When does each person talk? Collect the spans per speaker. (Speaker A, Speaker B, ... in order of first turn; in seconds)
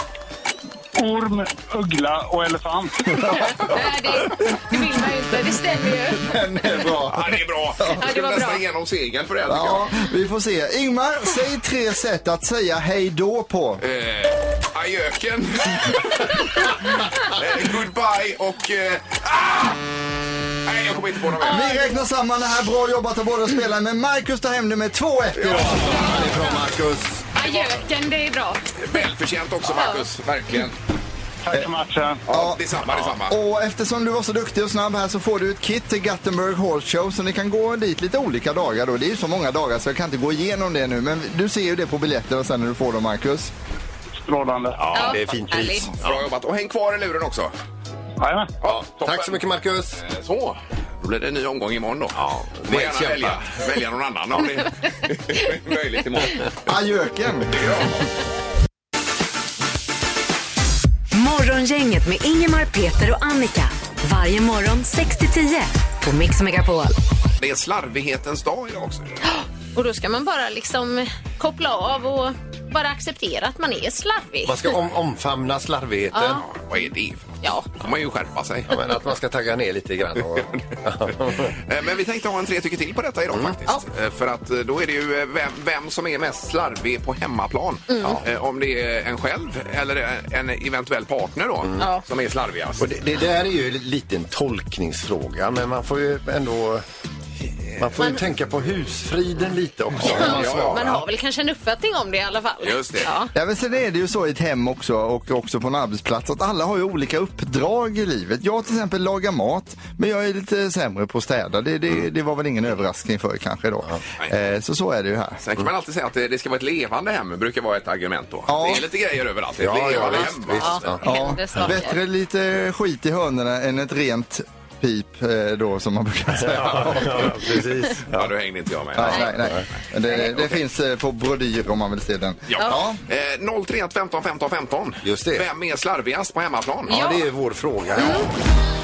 Speaker A: 0.9-3.5, 31.4-32.2, 44.2-45.0, 48.2-48.5
Speaker B: 3.4-6.3, 8.0-8.6, 21.4-22.0, 27.3-28.6, 29.7-30.0, 44.9-45.9, 69.2-74.7, 76.1-76.4, 77.4-77.7, 87.9-88.2, 91.8-92.0, 100.1-103.3, 120.5-122.0, 136.9-137.2, 138.0-138.3
Speaker C: 6.1-7.9, 9.5-13.8, 21.4-26.1, 32.3-32.6, 33.2-43.5, 56.6-57.6, 103.3-115.4, 118.5-118.8, 121.0-127.5, 128.9-133.0
Speaker D: 7.1-9.9, 13.8-19.8, 20.6-21.7, 25.4-26.1, 28.8-30.8, 32.3-33.4, 46.0-47.5, 48.6-49.4, 50.0-56.5, 57.5-58.0, 67.4-69.2, 76.4-78.8, 81.5-92.9, 100.0-101.0, 102.6-103.1, 115.4-121.0, 128.1-129.6, 132.5-137.1
Speaker E: 25.5-27.2, 44.8-46.2, 48.6-50.0, 52.1-53.4, 74.5-76.4, 78.7-81.5, 92.8-96.8, 97.8-101.0, 119.6-121.0, 126.3-128.3, 135.0-135.5, 136.9-138.3
Speaker F: 61.1-67.0